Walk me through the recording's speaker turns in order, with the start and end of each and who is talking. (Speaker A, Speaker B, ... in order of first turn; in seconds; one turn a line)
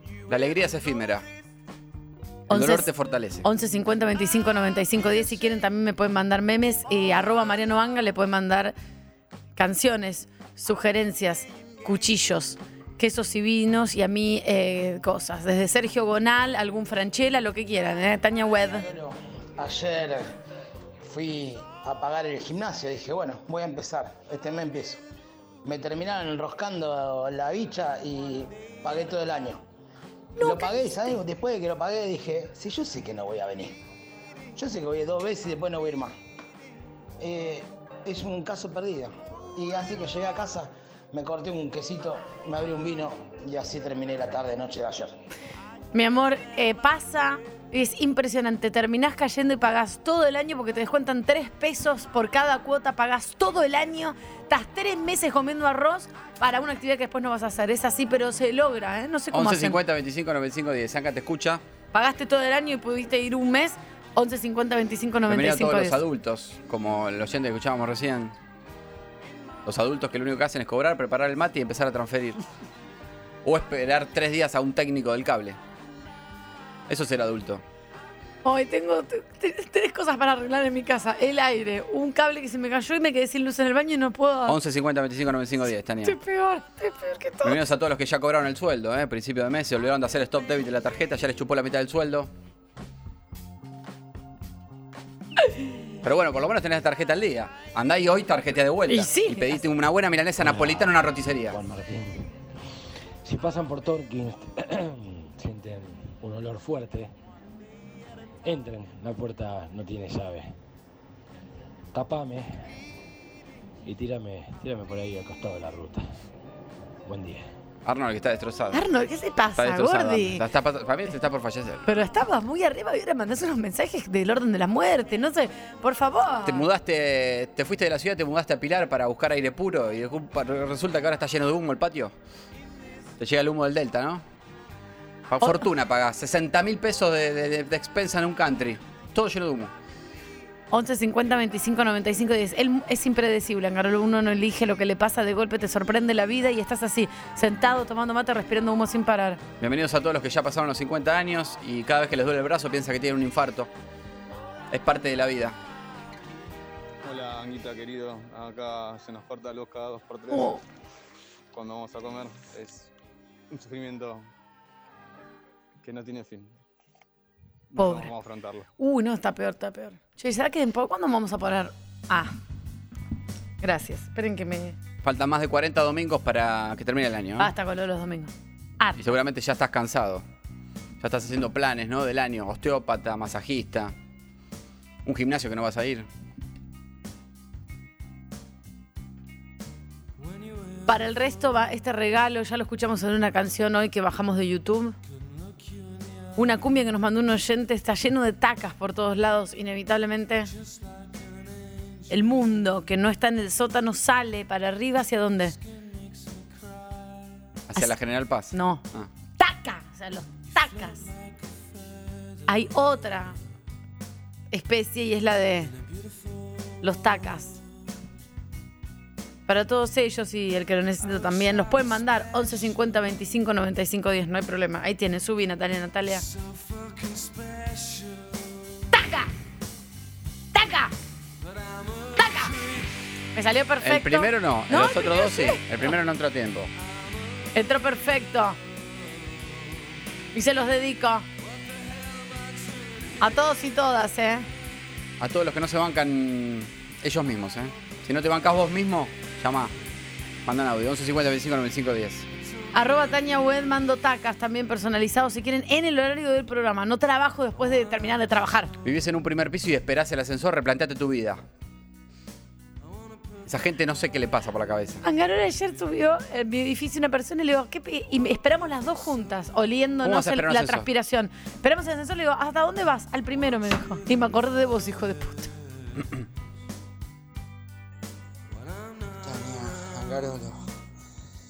Speaker A: 0.3-1.2
Speaker B: 2.5-2.9
Speaker A: 2.5-3.5
Speaker B: 3.4-8.7
Speaker B: 9.6-18.9
Speaker C: 18.6-20.3
Speaker C: 21.0-25.0
Speaker C: 25.6-29.6
Speaker B: 30.4-30.8
Speaker C: 30.4-33.8
Speaker C: 34.5-36.1
Speaker C: 37.2-45.2
Speaker B: 45.9-59.8
Speaker A: 59.3-61.6
Speaker B: 61.9-66.0
Speaker A: 65.3-68.3
Speaker A: 69.6-72.4
Speaker A: 73.4-75.6
Speaker A: 76.9-77.6
Speaker B: 78.4-84.6
Speaker A: 84.5-86.2
Speaker B: 86.0-87.6
Speaker A: 87.4-92.3
Speaker A: 96.0-101.6
Speaker B: 98.9-99.6
Speaker D: 100.4-102.3
Speaker D: 103.2-107.1
Speaker D: 108.4-110.5
Speaker D: 111.9-112.6
Speaker D: 113.8-116.2
Speaker D: 117.0-117.5
Speaker A: 117.8-118.9
Speaker B: 118.7-120.4
Speaker A: 119.6-121.9
Speaker B: 121.8-126.6
Speaker A: 126.4-132.1
Speaker A: 133.2-134.2
Speaker A: 135.3-139.7
Speaker B: 140.7-149.4
Speaker A: 149.6-153.7
Speaker A: 154.7-155.6
Speaker E: 157.1-160.3
Speaker B: 160.3-160.6
Speaker E: 161.5-162.9
Speaker E: 163.6-164.2
Speaker E: 165.9-166.5
Speaker B: 167.7-168.1
Speaker E: 168.2-168.6
Speaker B: 168.8-172.3
Speaker B: 173.6-174.8
Speaker A: 175.0-177.5
Speaker B: 177.4-179.0
Speaker A: 179.0-180.2
Speaker A: 181.0-183.9
Speaker A: 185.0-186.1
Speaker B: 190.9-194.9
Speaker B: 196.3-200.5
Speaker B: 202.1-205.6
Speaker A: 207.7-209.1
Speaker B: 208.5-208.8
Speaker B: 209.4-211.1
Speaker B: 212.5-213.4
Speaker B: 214.5-215.7
Speaker B: 216.8-217.6
Speaker B: 219.5-226.2
Speaker B: 228.9-229.3
Speaker B: 230.5-230.9
Speaker B: 232.2-232.5
Speaker B: 233.3-235.7
Speaker A: 233.8-236.7
Speaker B: 237.5-238.6
Speaker B: 240.3-241.2
Speaker B: 243.2-244.5
Speaker A: 245.2-249.7
Speaker A: 250.4-252.3
Speaker B: 252.7-258.7
Speaker A: 258.8-261.4
Speaker A: 263.4-265.0
Speaker B: 265.0-275.5
Speaker A: 270.0-270.9
Speaker D: 279.2-280.7